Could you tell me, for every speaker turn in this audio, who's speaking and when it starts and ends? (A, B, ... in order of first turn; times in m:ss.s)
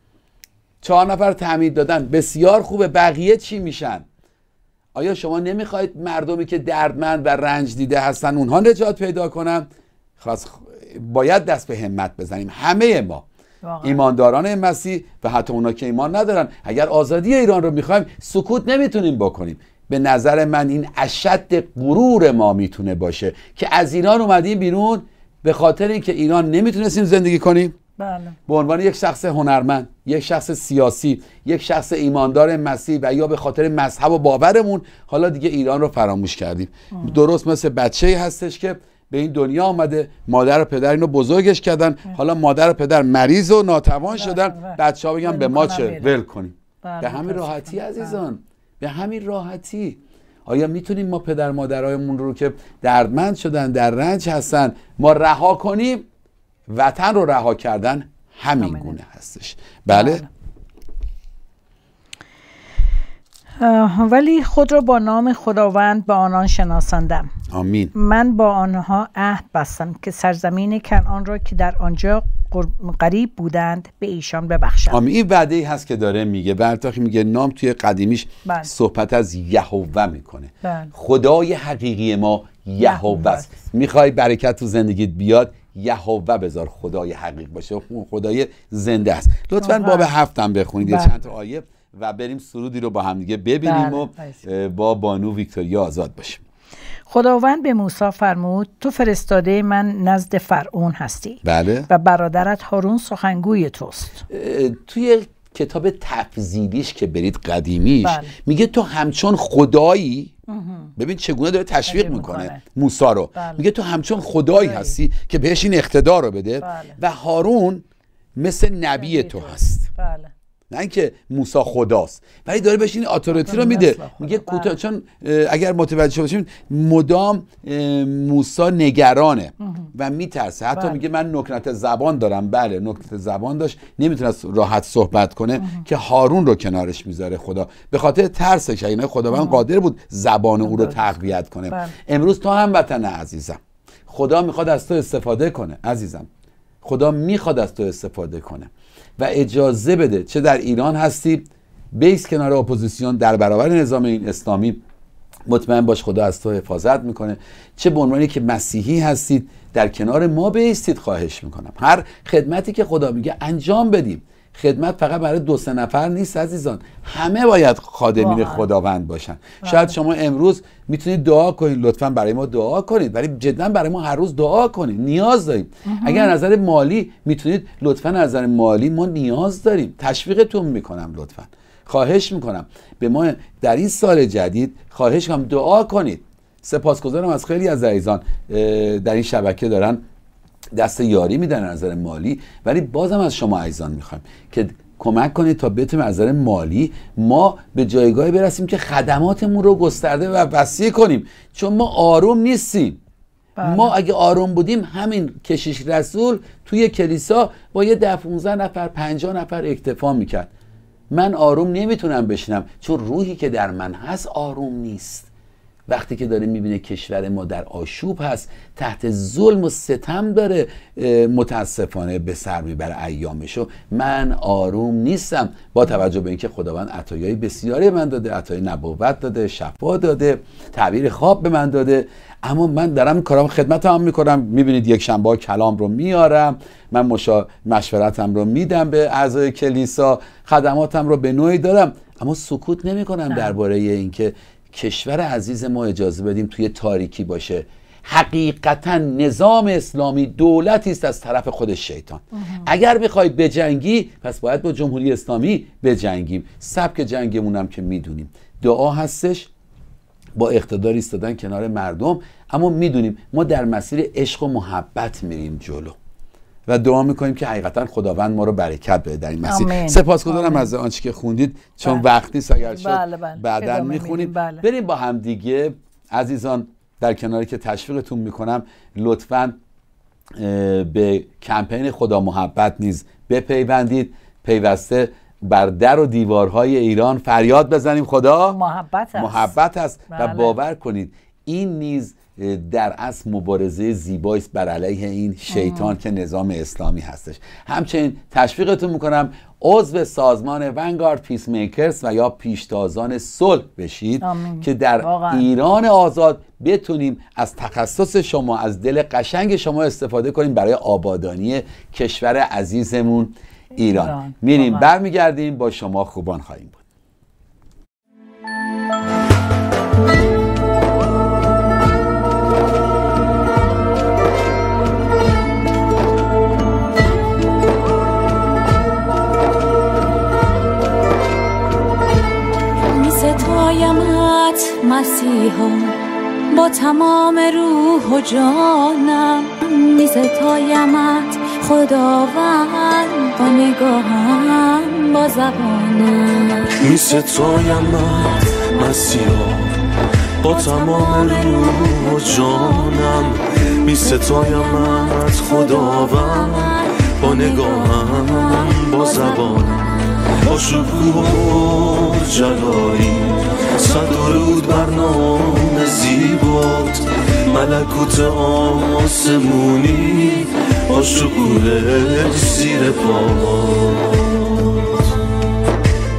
0:00.8-0:04.0 A
0:04.9-0:13.2 A
0:13.6-0:14.0 B
0:13.8-0:27.8 A
0:28.0-0:28.4 B
0:28.5-0:56.1 A
0:36.9-0:37.2 B
0:44.1-0:46.1 B
0:46.8-0:48.2 B
0:56.7-1:00.2 A
0:58.6-0:59.0 B
0:59.9-1:00.3 B
1:03.6-1:07.3 B
1:07.5-1:07.9 A
1:07.9-1:15.0 B
1:14.9-1:36.4 A
1:18.4-1:18.7 B
1:20.6-1:20.9 B
1:22.8-1:23.5 B
1:29.6-1:30.1 B
1:30.8-1:31.2 B
1:33.6-1:34.4 B
1:37.1-1:44.2 B
1:41.4-1:41.9 A
1:44.3-1:50.3 A
1:48.0-1:48.3 B
1:50.5-1:50.9 B
1:51.0-1:57.8 A
1:51.9-1:52.6 B
1:53.3-1:53.7 B
1:54.5-1:55.0 B
1:56.6-1:57.0 B
1:58.4-1:59.9 A
1:59.0-2:00.3 B
2:00.7-2:26.3 A
2:03.3-2:04.7 B
2:09.6-2:09.9 B
2:15.6-2:15.8 B
2:19.3-2:19.6 B
2:20.6-2:21.9 B
2:26.8-2:34.8 A
2:35.5-3:10.0 A
2:48.2-2:48.6 B
2:49.6-2:49.9 B
2:55.8-2:56.3 B
3:10.7-3:23.0 A
3:23.6-3:23.9 B
3:23.6-3:30.5 A
3:31.1-3:35.3 A
3:35.9-4:19.5 A
4:12.3-4:12.7 B
4:20.4-4:26.0 A
4:26.7-4:39.6 A
4:29.4-4:30.7 B
4:32.6-4:34.6 B
4:40.3-4:48.6 A
4:48.5-4:49.5 B
4:49.1-5:16.8 A
4:50.1-4:50.6 B
4:55.5-4:56.0 B
5:04.2-5:05.5 B
5:13.8-5:14.9 B
5:32.8-5:46.9 C
5:46.8-5:49.9 D
5:50.4-6:14.3 D
5:50.6-5:53.3 C
5:54.2-5:55.1 C
5:55.9-6:00.1 C